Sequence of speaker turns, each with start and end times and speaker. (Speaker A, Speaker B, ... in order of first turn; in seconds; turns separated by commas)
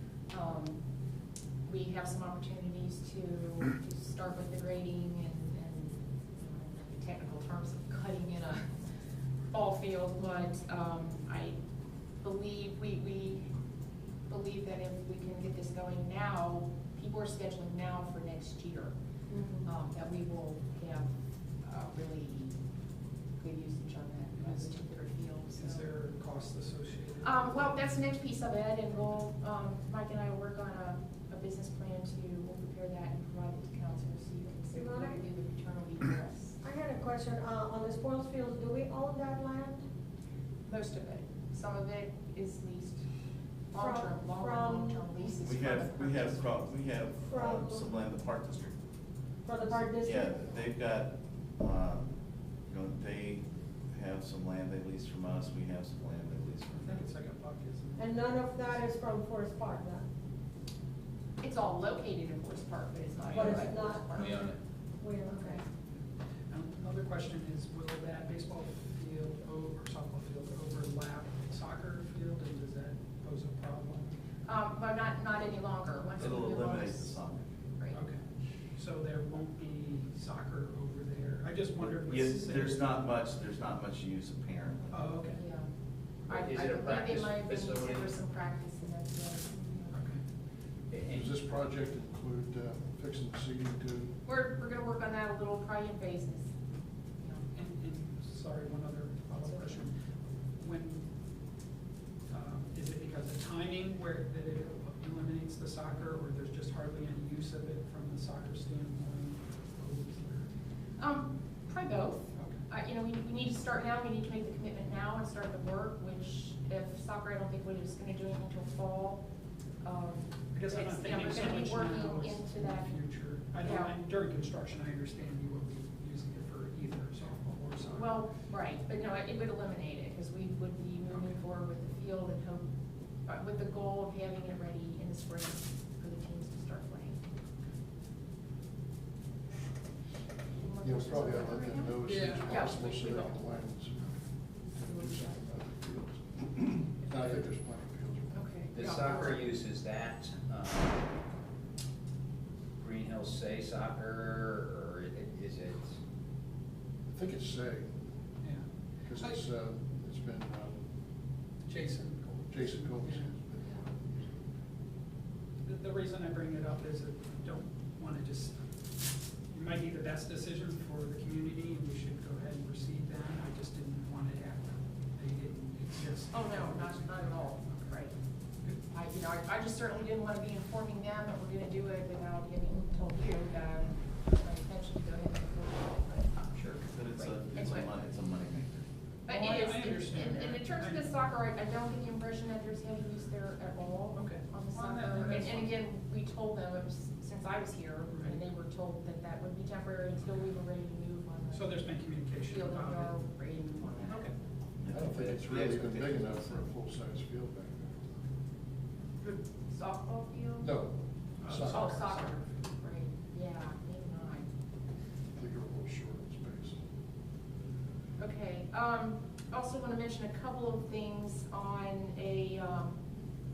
Speaker A: 0.3-0.8, Speaker A: 1.6-8.7, Speaker A: 9.5-11.6, Speaker A: 12.2-13.5, Speaker A: 14.3-18.9, Speaker B: 19.3-19.7, Speaker A: 19.6-21.1, Speaker A: 21.6-22.6, Speaker A: 23.4-25.9, Speaker C: 24.4-24.8, Speaker C: 25.5-27.7, Speaker A: 27.2-36.6, Speaker B: 34.7-35.2, Speaker B: 36.6-39.8, Speaker A: 40.7-43.0, Speaker B: 43.7-45.1, Speaker A: 43.7-46.7, Speaker D: 45.4-48.8, Speaker B: 47.2-47.9, Speaker B: 49.4-50.5, Speaker D: 49.9-56.9, Speaker C: 56.6-58.3, Speaker B: 58.0-60.0, Speaker A: 61.4-64.5, Speaker B: 63.3-64.3, Speaker E: 64.1-64.6, Speaker B: 65.0-65.6, Speaker A: 65.3-65.6, Speaker C: 66.5-74.2, Speaker A: 74.4-77.2, Speaker D: 76.2-77.6, Speaker C: 77.9-78.2, Speaker C: 78.7-83.0, Speaker D: 82.0-84.9, Speaker A: 84.8-85.7, Speaker C: 84.9-85.4, Speaker E: 86.3-88.1, Speaker A: 86.3-90.0, Speaker C: 89.9-90.2, Speaker E: 90.9-91.3, Speaker F: 91.1-94.1, Speaker A: 94.2-96.5, Speaker C: 97.5-99.9, Speaker A: 99.4-99.8, Speaker C: 100.6-101.0, Speaker C: 102.3-110.5, Speaker A: 111.0-119.2, Speaker C: 112.3-112.6, Speaker A: 119.8-122.9, Speaker C: 120.5-128.2, Speaker A: 123.6-123.9, Speaker A: 127.8-132.7, Speaker A: 133.2-137.2, Speaker A: 140.6-143.3, Speaker F: 140.8-144.1, Speaker C: 142.0-142.5, Speaker F: 144.7-148.4, Speaker A: 144.8-145.3, Speaker A: 148.3-149.5, Speaker E: 148.7-151.0, Speaker E: 152.8-156.0, Speaker F: 157.1-158.0, Speaker F: 159.0-160.8, Speaker C: 161.7-163.3, Speaker F: 162.5-164.5, Speaker C: 165.6-168.6, Speaker C: 169.5-178.8, Speaker A: 176.3-178.1, Speaker A: 178.8-187.9, Speaker D: 186.7-188.9, Speaker A: 189.2-201.8, Speaker C: 189.3-191.3, Speaker C: 194.1-195.7, Speaker C: 201.5-203.2, Speaker A: 202.5-204.3, Speaker C: 204.0-204.3, Speaker D: 204.8-206.5, Speaker F: 204.9-208.2, Speaker A: 209.7-210.7, Speaker F: 210.6-212.0, Speaker C: 211.4-212.5, Speaker A: 211.6-214.5, Speaker F: 215.3-216.8, Speaker A: 218.2-223.0